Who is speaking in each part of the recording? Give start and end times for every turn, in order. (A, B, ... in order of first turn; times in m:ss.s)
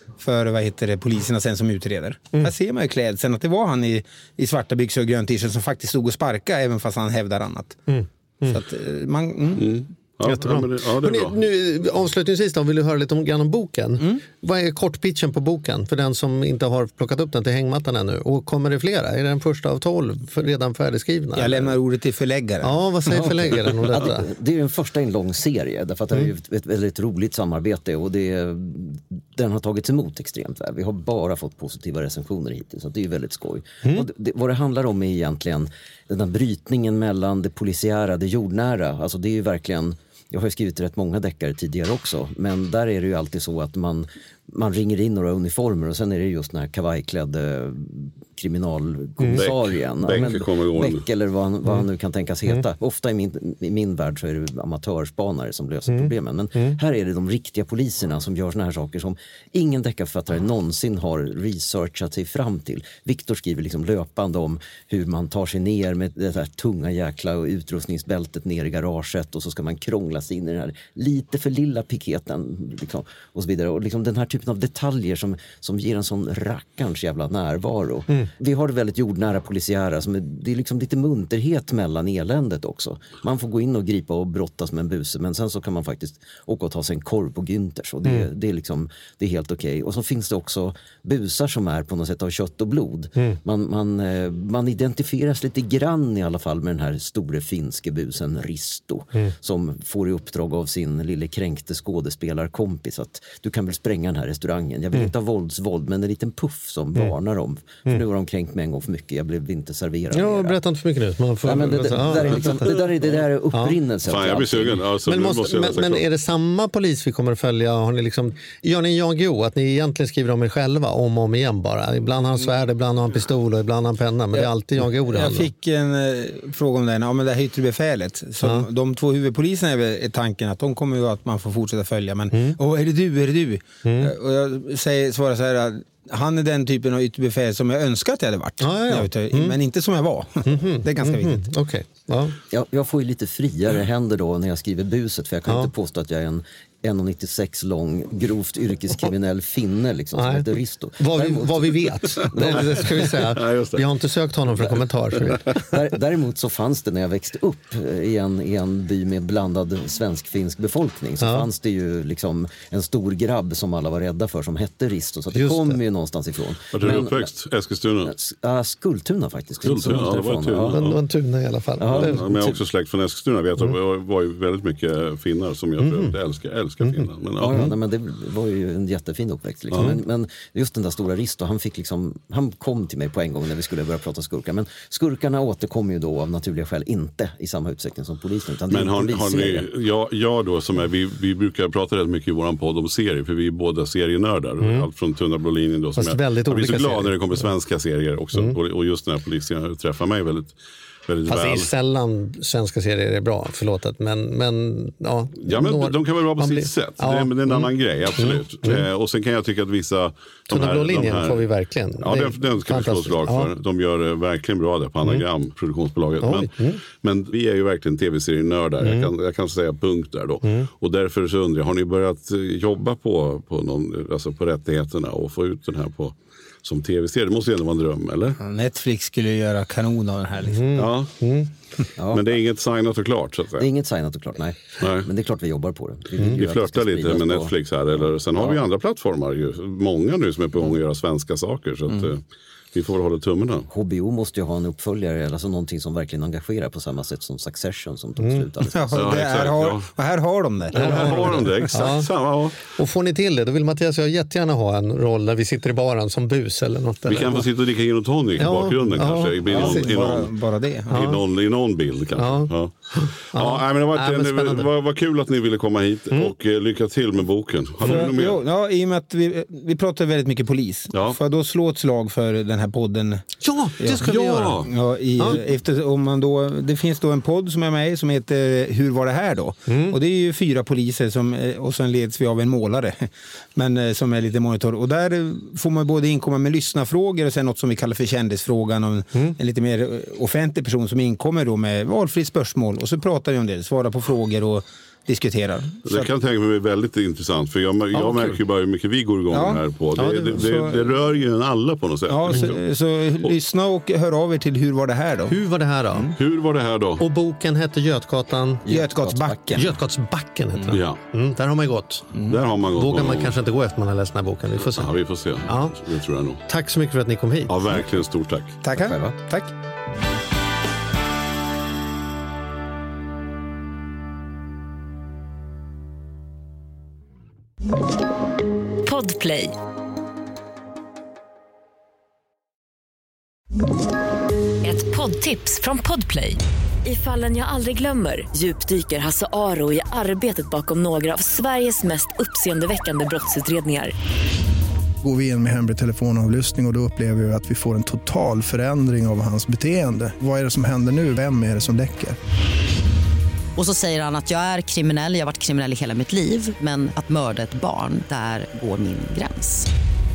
0:00.2-0:07.8 A
0:07.9-0:08.6 B
0:08.4-0:09.8 A
0:09.6-0:11.4 C
0:10.2-0:21.8 B
0:21.3-0:23.7 A
0:22.6-0:24.3 B
0:23.1-1:50.6 D
0:33.8-0:34.1 B
0:49.2-0:49.4 B
0:49.3-0:51.0 C
0:55.9-0:56.8 B
1:50.1-1:52.8 B
1:51.4-1:54.9 D
1:54.0-1:56.0 C
1:55.0-2:05.5 B
2:04.3-2:21.5 A
2:08.4-2:08.7 B
2:12.3-2:12.6 B
2:13.8-2:14.1 B
2:18.6-2:19.6 B
2:20.4-2:22.4 B
2:22.5-2:33.1 D
2:25.5-2:25.7 B
2:30.1-2:35.8 B
2:32.2-2:33.9 C
2:35.4-2:47.3 D
2:41.2-2:41.5 B
2:45.3-2:45.8 B
2:46.7-2:48.1 C
2:48.0-2:50.9 D
2:49.6-2:51.0 C
2:50.6-2:52.2 B
2:51.8-2:52.6 D
2:51.9-2:57.7 C
2:55.8-2:56.2 B
2:56.8-2:57.7 B
2:57.4-3:09.7 D
2:59.7-3:00.0 C
2:59.7-3:00.0 B
3:08.7-3:20.6 C
3:14.6-3:14.9 B
3:16.0-3:17.4 B
3:21.1-3:21.7 C
3:21.3-3:28.9 B
3:25.4-3:31.4 C
3:30.5-3:33.5 B
3:32.0-3:48.4 C
3:36.2-3:36.8 B
3:38.8-3:39.1 B
3:40.4-3:40.7 B
3:48.4-3:50.8 A
3:50.4-3:51.5 B
3:50.8-3:51.1 C
3:52.0-3:52.2 D
3:52.1-3:53.7 C
3:53.6-3:58.6 D
3:54.8-3:55.1 C
3:56.2-4:02.2 C
4:02.7-4:03.7 C
4:03.7-4:09.1 D
4:08.2-4:08.5 B
4:08.7-4:11.6 A
4:08.9-4:09.9 C
4:10.7-4:12.6 C
4:10.7-4:17.5 B
4:17.0-4:20.3 C
4:18.4-4:19.9 B
4:19.5-4:21.1 A
4:20.8-4:28.4 C
4:20.9-4:21.2 B
4:22.2-4:24.7 B
4:27.8-4:28.1 B
4:27.8-4:33.3 A
4:30.9-4:31.2 C
4:33.4-4:34.6 B
4:33.8-4:34.0 A
4:34.0-4:34.7 C
4:34.6-4:56.1 A
4:39.7-4:40.0 B
4:55.8-5:02.6 C
4:57.9-4:58.4 B
4:59.3-4:59.6 A
5:00.0-5:00.5 B
5:00.3-5:00.9 A
5:02.1-5:05.4 A
5:05.3-5:06.1 B
5:06.2-5:07.0 C
5:07.0-5:08.7 B
5:08.6-5:09.7 D
5:08.7-5:09.7 A
5:09.5-5:12.1 B
5:10.7-5:11.0 C
5:12.2-5:13.4 C
5:12.7-5:14.9 B
5:14.6-5:16.4 C
5:15.4-5:15.8 B
5:16.4-5:17.6 B
5:17.5-5:18.6 C
5:18.6-5:19.5 A
5:18.8-5:19.1 D
5:28.8-5:29.6 E
5:34.6-5:43.9 E
5:45.0-5:52.2 F
5:53.6-5:59.7 G